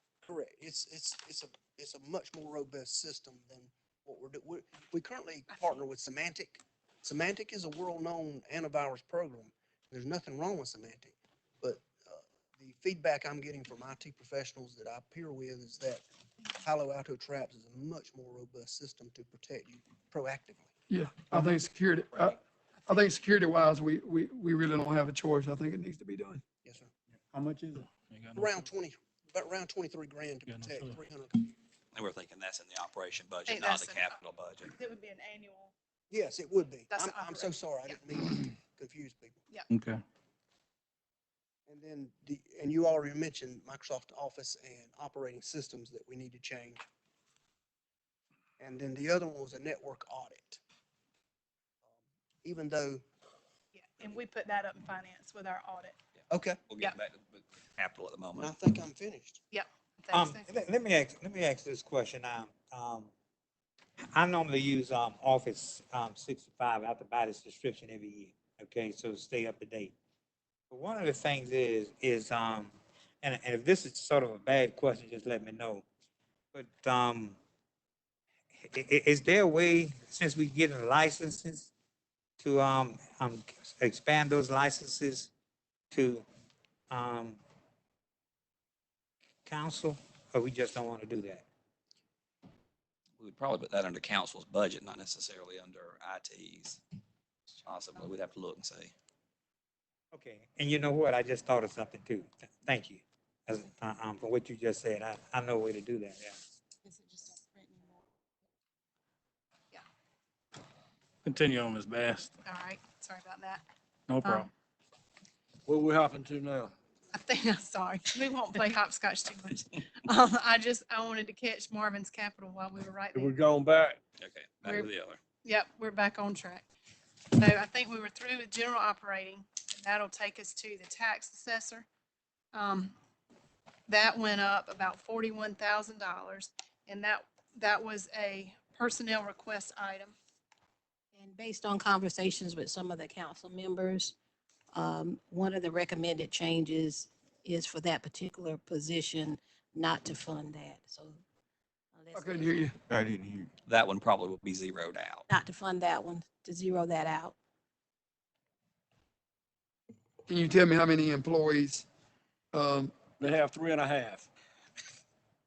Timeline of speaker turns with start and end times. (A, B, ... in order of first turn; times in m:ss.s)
0:00.2-0:16.0 A
0:16.5-0:20.7 A
0:20.9-0:26.4 B
0:26.6-0:26.9 A
0:27.9-0:28.6 C
0:28.4-0:31.5 A
0:30.5-0:31.0 C
0:31.9-0:34.7 D
0:33.5-0:34.2 E
0:34.7-0:35.7 E
0:36.1-0:39.4 A
0:36.9-0:37.5 E
0:39.7-0:40.0 C
0:41.7-0:46.8 A
0:48.6-0:50.6 A
0:51.8-0:53.0 A
0:53.7-0:56.0 E
0:56.3-0:56.6 A
0:56.7-0:58.5 D
0:58.4-0:59.4 A
0:59.5-1:00.4 E
1:00.1-1:03.1 F
1:04.1-1:09.9 F
1:10.7-1:15.8 F
1:16.5-1:17.4 F
1:18.6-1:21.7 F
1:22.4-1:25.3 F
1:25.9-1:26.2 F
1:26.9-1:27.4 F
1:29.4-1:31.4 F
1:33.2-1:36.8 D
1:37.6-1:38.9 D
1:40.1-1:46.4 F
1:46.8-1:48.0 E
1:51.2-1:52.3 C
1:52.4-1:53.6 E
1:54.1-1:54.5 C
1:54.2-1:54.5 E
1:55.6-1:56.7 G
1:57.1-2:03.4 E
2:03.1-2:04.0 G
2:04.2-2:05.2 D
2:04.6-2:04.9 E
2:05.4-2:06.6 E
2:07.3-2:11.8 E
2:12.5-2:12.9 E
2:13.9-2:20.2 E
2:21.1-2:24.1 H
2:24.7-2:31.2 H
2:32.0-2:32.7 H
2:32.2-2:32.6 B
2:33.6-2:35.2 D
2:35.3-2:37.3 H
2:40.3-2:41.8 B
2:42.5-2:43.0 B
2:43.1-2:44.3 G